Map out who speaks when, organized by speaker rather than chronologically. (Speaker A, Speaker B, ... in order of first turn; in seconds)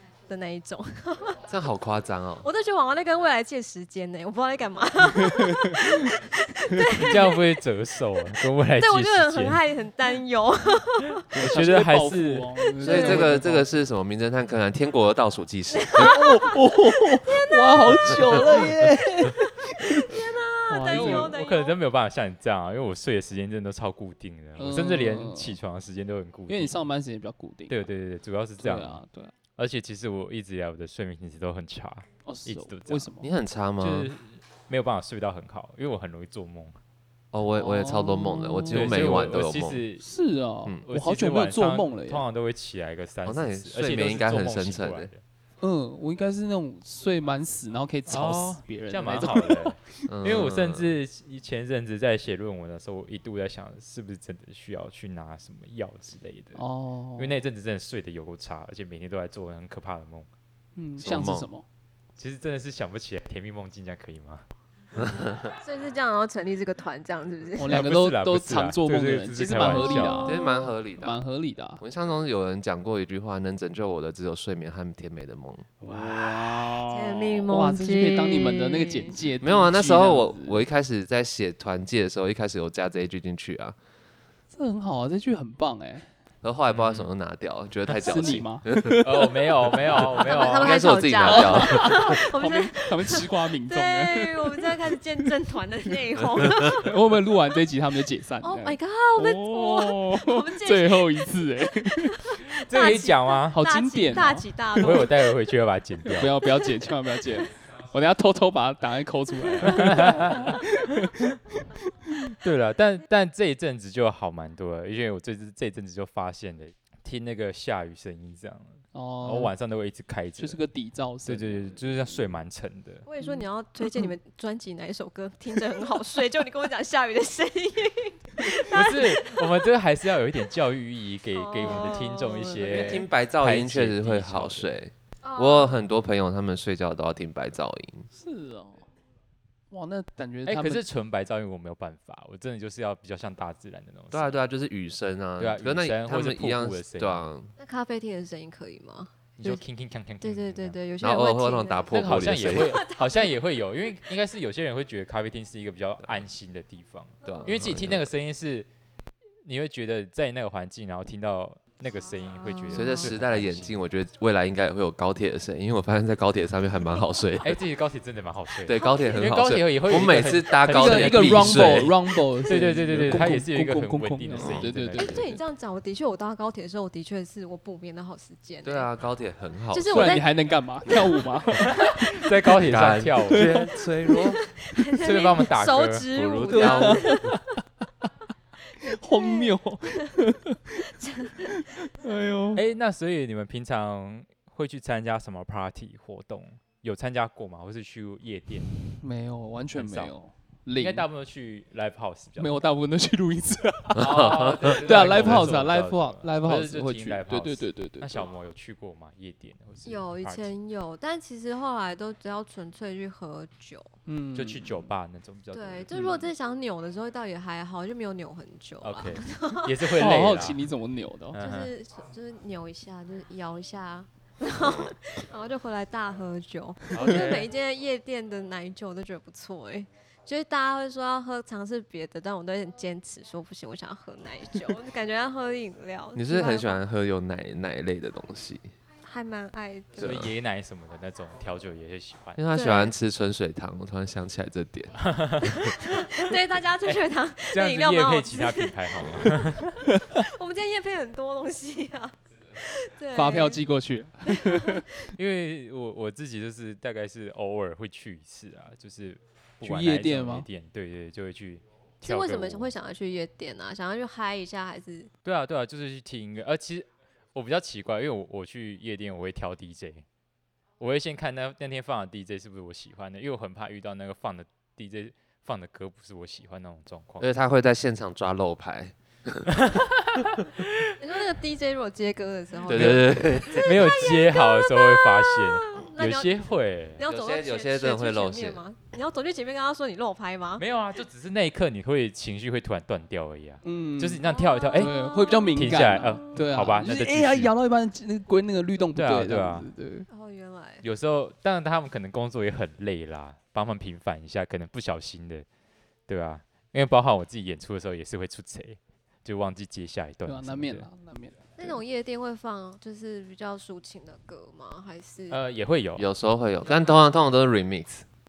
Speaker A: 0.3-1.4, 2.4-7.4, 8.8-11.2, 12.8-13.2, 15.7-18.8, 19.3-21.8, 65.6-67.8, 69.7-70.7, 76.8-79.2, 90.2-96.9, 98.4-101.3, 101.8-105.2, 123.0-129.4, 131.3-133.1, 135.2-135.8, 147.6-149.6, 150.2-153.3, 162.4-163.1, 168.7-169.1, 174.9-178.9, 179.7-180.3, 180.9-181.2, 184.1-187.4, 188.8-189.5, 190.9-191.5, 209.8-213.9, 215.5-219.9, 221.4-236.8, 239.0-240.2, 242.5-242.9, 245.4-249.5, 250.0-253.6, 254.2-254.8, 262.0-265.1, 281.0-286.3, 286.9-290.6, 294.2-296.4, 300.1-300.8, 311.6-315.4
Speaker B: 1.5-2.5, 12.8-16.2, 33.2-34.1, 37.3-39.8, 43.2-45.1, 50.1-51.0, 61.0-61.5, 65.0-65.5, 70.2-71.2, 71.8-75.7, 79.4-83.8, 86.4-89.0, 90.4-92.2, 132.6-138.1, 144.1-147.5, 151.0-152.8, 157.2-158.1, 162.7-167.6, 168.6-171.9, 173.0-173.3, 174.4-174.7, 178.6-180.2, 182.6-184.4, 186.1-187.1, 203.9-205.4, 236.1-238.7, 240.0-240.3, 242.3-244.9, 277.2-279.5, 282.7-283.8, 287.0-288.6, 316.0-318.1
Speaker C: 5.2-5.8, 11.3-13.7, 16.0-21.4, 24.6-25.6, 26.5-27.8, 28.6-29.3, 32.2-33.3, 37.5-39.2, 40.0-42.2, 45.6-49.8, 56.5-57.4, 60.8-61.6, 67.5-70.5, 71.0-71.8, 75.8-80.6, 84.5-86.1, 87.9-90.3, 91.3-94.9, 96.4-102.3, 103.5-105.2, 106.0-112.1, 118.9-119.5, 120.4-122.2, 123.2-124.1, 138.1-138.8, 139.7-140.8, 170.7-175.3, 179.9-182.1, 183.3-183.7, 186.5-187.4, 188.8-190.9, 191.4-192.6, 199.0-201.1, 202.4-208.3, 214.1-214.9, 215.9-216.2, 219.9-221.4, 253.1-254.9, 259.6-260.5, 293.6-300.1, 310.2-311.8
Speaker D: 6.9-9.6, 11.3-12.5, 20.9-26.8, 27.7-29.0, 29.6-33.1, 33.8-36.8, 38.7-40.0, 40.9-45.2, 48.1-56.6, 57.1-60.3, 62.2-64.4, 67.7-70.3, 75.9-76.6, 86.7-87.1, 89.0-90.9, 102.5-103.7, 104.8-106.6, 109.6-111.2, 112.3-120.6, 121.2-123.0, 128.7-134.7, 140.4-144.4, 145.4-147.2, 149.4-150.8, 151.9-158.7, 159.4-163.8, 167.4-175.3, 181.6-183.7, 185.0-186.2, 192.5-198.7, 199.7-200.1, 200.7-202.6, 203.9-210.5, 214.3-215.9, 218.8-220.6, 221.3-221.7, 226.9-227.5, 240.0-242.4, 245.0-246.3, 246.8-249.8, 255.2-262.7, 265.2-270.0, 270.8-277.3, 279.6-280.9, 282.7-287.0, 290.6-294.9, 295.5-297.5, 298.9-299.7, 300.8-305.4, 306.1-310.9, 315.3-316.1